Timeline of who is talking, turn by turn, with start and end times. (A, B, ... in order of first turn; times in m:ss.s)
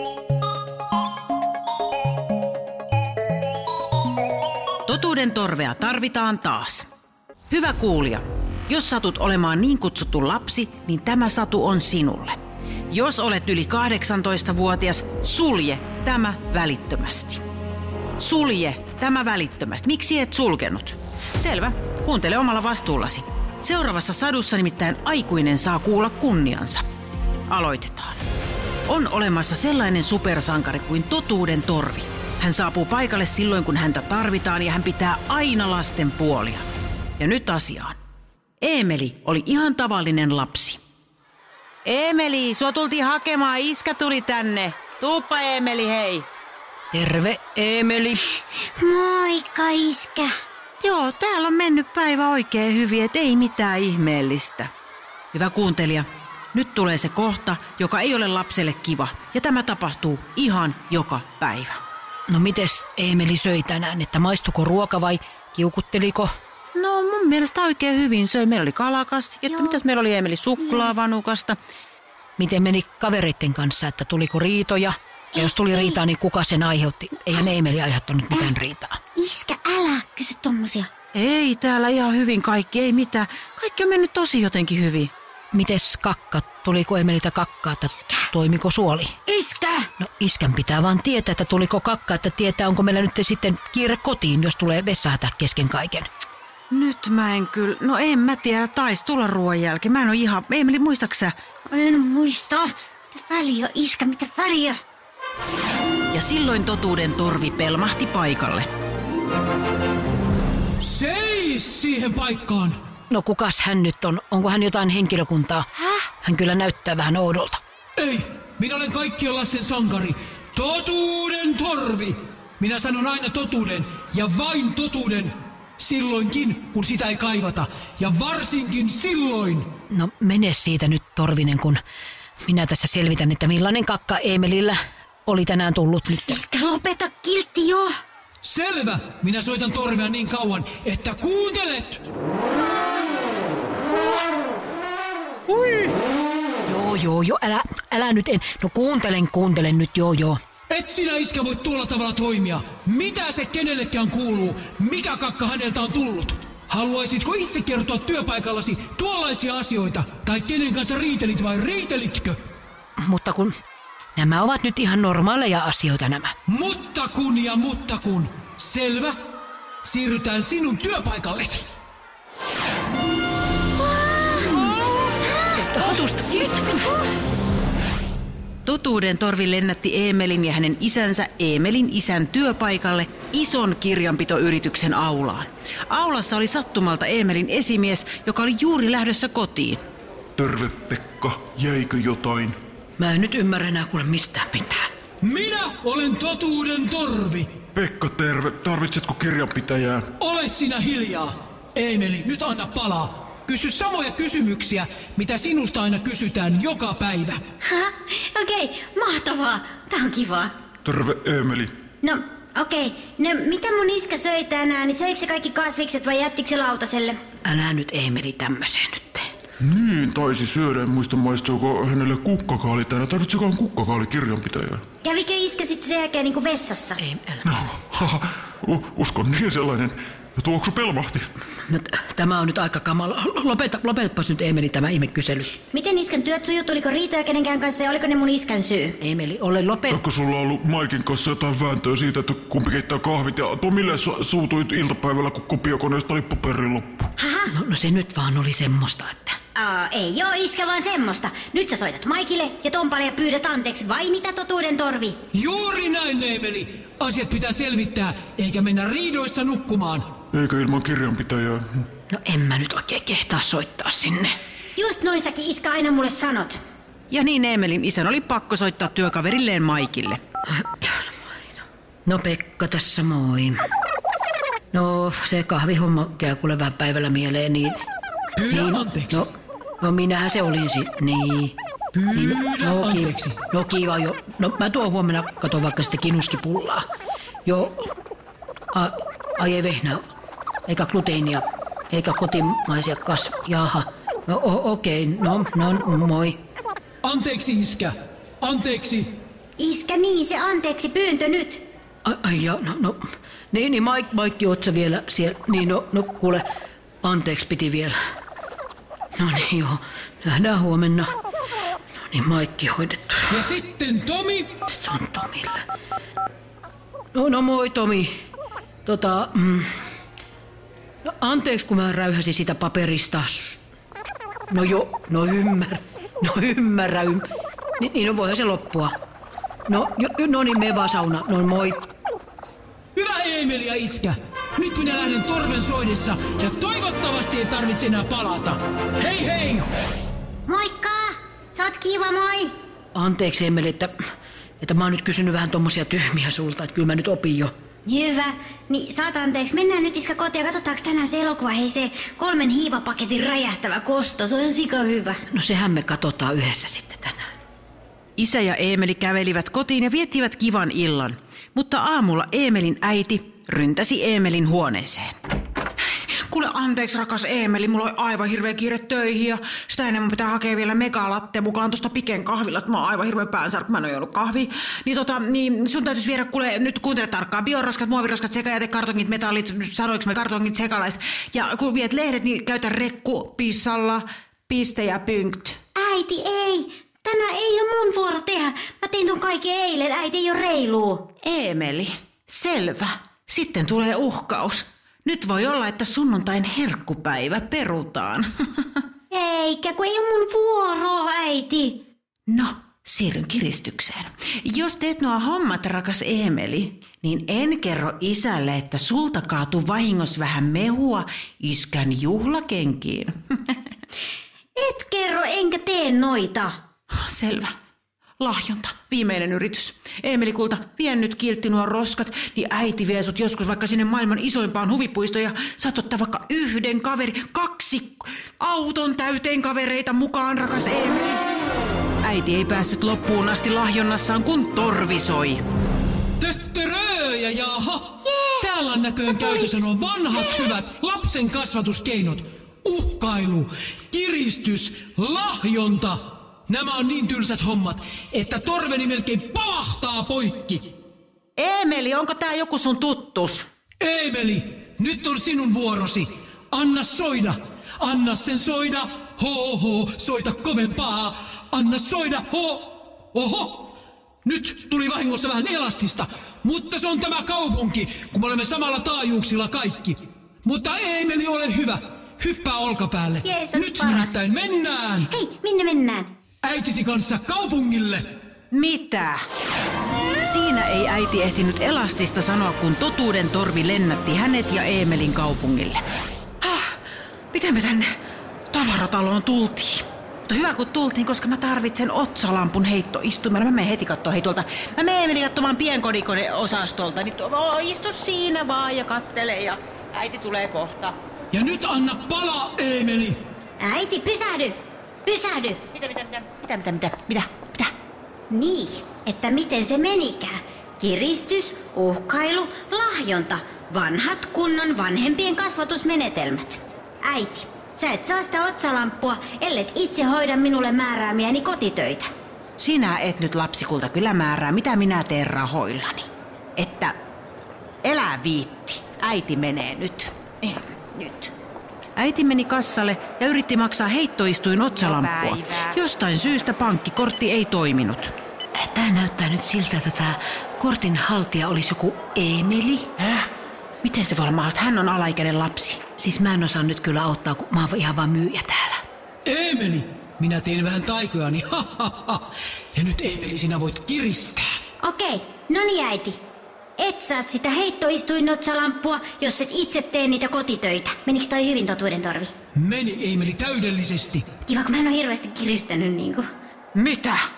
0:04.9-0:06.9 A
0:07.5-0:12.4 A
0:12.9-0:17.4 A
0:18.2-0:26.8 A
0:27.5-0:28.2 A
0:28.9-0:36.6 A
0:37.2-0:38.0 A
0:38.6-0:40.8 A
0:41.8-0:46.3 A
0:46.9-0:48.2 B
0:48.6-0:50.3 C
0:50.8-0:54.7 A
0:55.3-1:01.8 A
1:02.3-1:06.3 B
1:06.8-1:11.6 A
1:12.4-1:19.0 B
1:15.4-1:16.0 C
1:19.2-1:20.9 C
1:21.1-1:25.1 A
1:25.5-1:29.2 B
1:28.0-1:28.3 C
1:29.3-1:29.9 C
1:30.0-1:36.1 B
1:36.7-1:41.3 A
1:41.7-1:44.8 C
1:46.1-1:48.7 A
1:50.8-1:52.8 D
1:53.1-1:55.7 B
1:56.2-1:57.6 B
1:58.0-2:09.7 D
2:09.9-2:11.8 B
2:12.4-2:16.4 B
2:16.3-2:17.9 C
2:18.4-2:22.1 D
2:25.5-2:25.9 D
2:26.6-2:30.4 B
2:30.7-2:42.4 D
2:43.0-2:43.5 B
2:44.2-2:46.4 B
2:46.5-2:49.2 D
2:49.8-2:51.7 D
2:53.8-2:54.6 C
2:55.5-2:56.9 B
2:58.6-3:09.8 A
3:10.4-3:12.6 E
3:13.0-3:14.9 B
3:15.2-3:17.6 D
3:17.7-3:20.1 E
3:20.2-3:27.4 D
3:27.6-3:30.5 C
3:30.8-3:31.8 E
3:32.0-3:37.2 C
3:37.4-3:39.3 B
3:39.6-3:44.8 E
3:45.0-3:47.0 C
3:47.0-3:47.6 B
3:47.5-3:51.3 E
3:51.7-3:55.5 B
3:55.7-3:59.0 C
3:59.0-4:00.0 B
3:59.9-4:07.1 E
4:07.2-4:07.5 C
4:07.5-4:09.4 B
4:09.6-4:15.2 C
4:15.3-4:20.1 D
4:20.3-4:21.7 E
4:22.1-4:24.3 B
4:24.8-4:26.6 C
4:27.1-4:30.2 A
4:30.6-4:31.0 B
4:32.1-4:33.6 B
4:34.7-4:37.9 B
4:38.4-4:39.2 D
4:38.5-4:41.6 B
4:41.9-4:43.4 D
4:42.2-4:46.8 B
4:47.4-4:47.9 B
4:48.7-4:50.0 B
4:50.7-4:56.4 B
4:57.0-4:59.2 D
4:59.6-5:01.6 C
5:02.0-5:06.4 B
5:07.0-5:08.0 B
5:09.2-5:11.1 B
5:12.0-5:13.3 B
5:13.3-5:14.5 D
5:14.7-5:15.6 B
5:17.1-5:18.1 B
5:18.8-5:19.7 B
5:21.0-5:23.6 B
5:24.5-5:27.2 B
5:27.8-5:28.9 B
5:29.7-5:31.9 B
5:33.0-5:39.7 D
5:40.5-5:42.5 C
5:42.9-5:43.9 B
5:44.6-5:47.5 B
5:47.9-5:55.2 C
5:55.3-5:57.2 B
5:58.2-6:05.1 A
6:06.1-6:25.6 A
6:25.8-6:31.0 C
6:31.2-6:38.3 A
6:39.1-6:41.8 C
6:42.3-6:53.5 A
6:54.6-6:56.6 C
6:56.9-6:57.5 A
6:58.2-7:11.2 A
7:12.0-7:15.4 A
7:16.2-7:30.7 D
7:31.4-7:33.5 A
7:33.8-7:55.1 D
7:53.2-7:54.1 C
7:55.1-7:56.1 C
7:56.4-7:58.2 D
7:58.5-7:59.2 A
8:00.2-8:05.8 A
8:06.4-8:06.8 A
8:07.3-8:07.9 A
8:08.5-8:21.0 A
8:21.3-8:23.2 D
8:23.6-8:25.6 C
8:25.7-8:27.7 A
8:28.3-8:42.1 C
8:42.6-8:47.0 A
8:47.8-8:51.3 A
8:52.0-8:58.1 A
8:58.6-9:02.9 B
9:03.0-9:03.3 A
9:03.8-9:05.8 A
9:06.0-9:08.8 B
9:09.2-9:14.4 D
9:14.8-9:16.2 C
9:16.8-9:22.3 C
9:22.6-9:24.3 D
9:24.5-9:26.3 C
9:26.7-9:27.2 A